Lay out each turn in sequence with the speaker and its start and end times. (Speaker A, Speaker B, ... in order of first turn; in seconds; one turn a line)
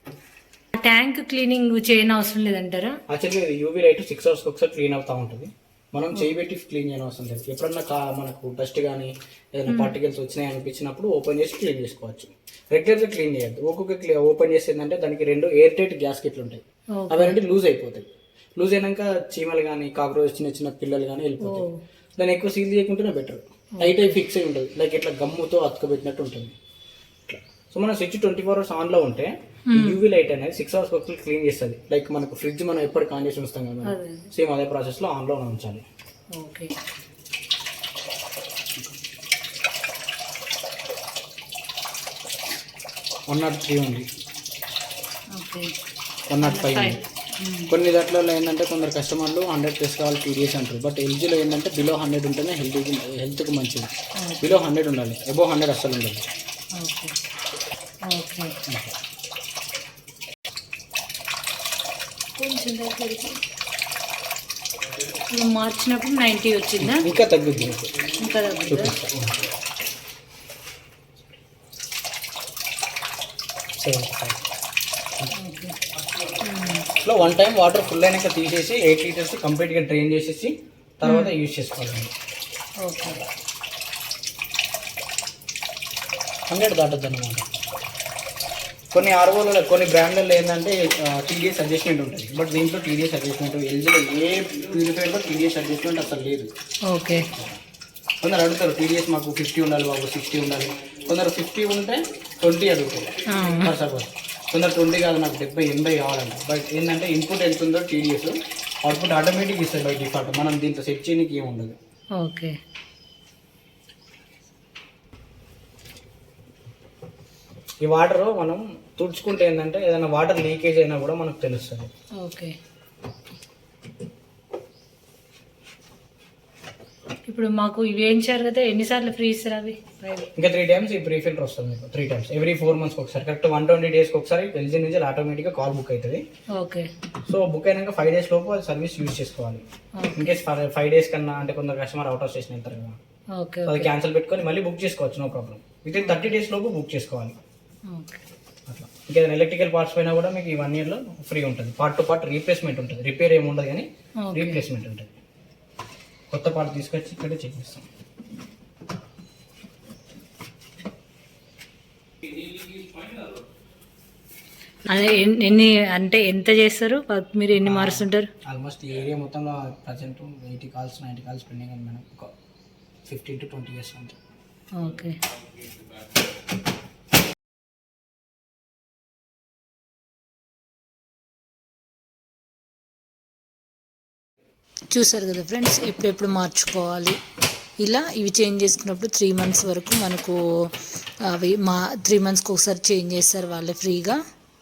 Speaker A: 0.8-3.0
Speaker B: 3.1-26.6
Speaker A: 9.7-9.9
Speaker A: 16.9-17.4
Speaker A: 21.4-21.8
Speaker A: 23.8-24.2
Speaker B: 27.3-35.9
Speaker A: 29.7-30.0
Speaker A: 33.8-34.3
Speaker A: 36.4-36.7
Speaker B: 43.3-44.1
Speaker A: 45.4-45.7
Speaker B: 46.3-47.0
Speaker A: 46.4-47.7
Speaker B: 47.7-53.9
Speaker B: 54.4-56.3
Speaker A: 56.8-57.2
Speaker A: 58.1-58.5
Speaker B: 58.7-58.9
Speaker A: 62.4-63.4
Speaker A: 65.3-67.1
Speaker B: 66.8-68.1
Speaker A: 68.2-68.9
Speaker B: 68.7-69.5
Speaker B: 73.8-74.4
Speaker A: 75.3-75.8
Speaker A: 76.4-76.9
Speaker B: 77.0-82.1
Speaker A: 81.0-81.3
Speaker A: 82.8-83.2
Speaker B: 86.5-87.5
Speaker B: 88.9-96.5
Speaker A: 96.9-97.3
Speaker B: 98.2-111.8
Speaker A: 103.3-103.8
Speaker A: 112.2-112.6
Speaker B: 117.8-121.9
Speaker A: 122.2-122.5
Speaker A: 127.2-130.3
Speaker B: 130.4-136.2
Speaker A: 136.6-136.9
Speaker B: 137.2-139.6
Speaker A: 140.0-140.4
Speaker B: 140.2-143.0
Speaker A: 143.4-143.9
Speaker B: 143.7-147.4
Speaker A: 146.0-146.3
Speaker A: 147.9-148.2
Speaker B: 148.7-155.2
Speaker A: 154.2-154.6
Speaker B: 156.3-157.9
Speaker A: 164.9-168.3
Speaker B: 167.6-172.3
Speaker B: 173.1-174.2
Speaker A: 174.8-175.2
Speaker C: 184.9-187.2
Speaker C: 187.8-194.2